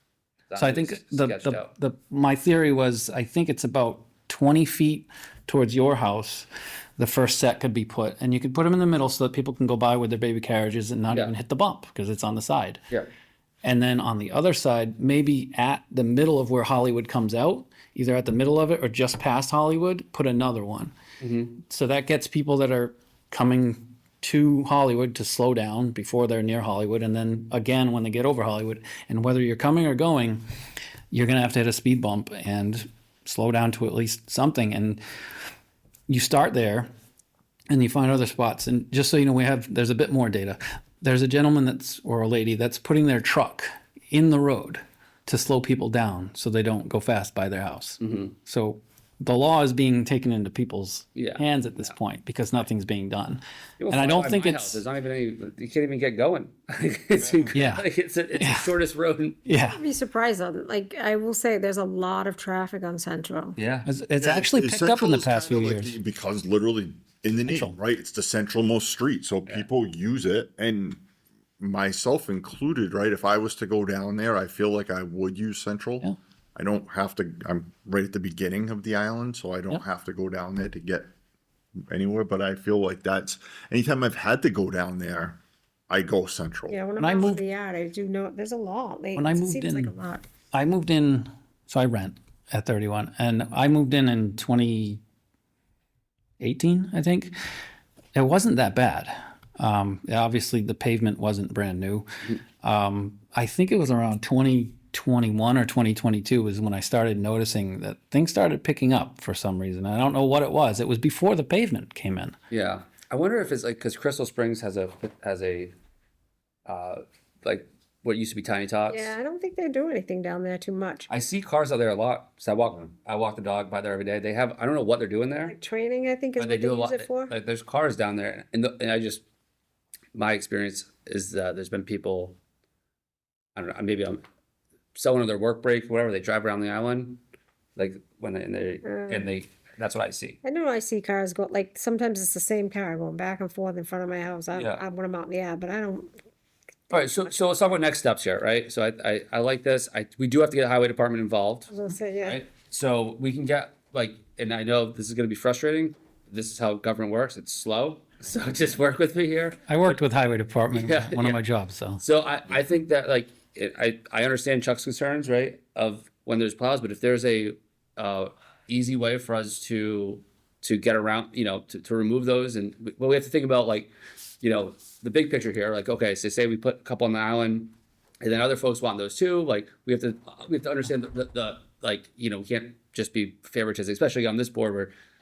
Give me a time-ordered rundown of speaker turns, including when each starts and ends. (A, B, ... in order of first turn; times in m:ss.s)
0:00.5-0:01.7 A
0:00.6-0:12.8 B
0:13.6-0:20.9 B
0:21.2-0:21.6 A
0:21.6-0:30.4 B
0:31.1-0:35.0 B
0:36.1-0:36.9 B
0:37.7-0:54.8 B
0:48.0-0:48.3 A
0:51.2-0:51.9 A
0:53.8-0:59.4 A
0:57.5-0:57.8 B
0:58.4-0:58.7 B
0:59.5-0:59.8 B
0:59.6-1:03.6 C
1:03.6-1:03.9 A
1:03.9-1:06.0 B
1:04.2-1:11.0 D
1:07.5-1:07.8 B
1:11.6-1:21.1 D
1:21.9-1:25.4 D
1:25.9-1:26.8 D
1:26.7-1:30.2 C
1:27.0-1:27.4 B
1:29.2-1:29.9 B
1:30.5-1:35.0 B
1:36.4-1:37.3 B
1:38.2-1:42.1 B
1:42.6-1:52.4 B
1:52.5-1:55.7 A
1:56.7-1:59.2 A
1:58.9-2:01.1 C
2:01.1-2:05.5 A
2:05.5-2:07.3 C
2:06.4-2:09.2 A
2:10.1-2:12.4 A
2:13.6-2:14.2 A
2:15.0-2:17.2 A
2:17.8-2:20.4 A
2:18.8-2:19.3 C
2:20.4-2:26.1 C
2:24.5-2:24.8 A
2:26.9-2:40.0 A
2:31.7-2:32.4 C
2:39.7-2:42.0 B
2:40.7-2:41.4 A
2:42.0-3:04.9 A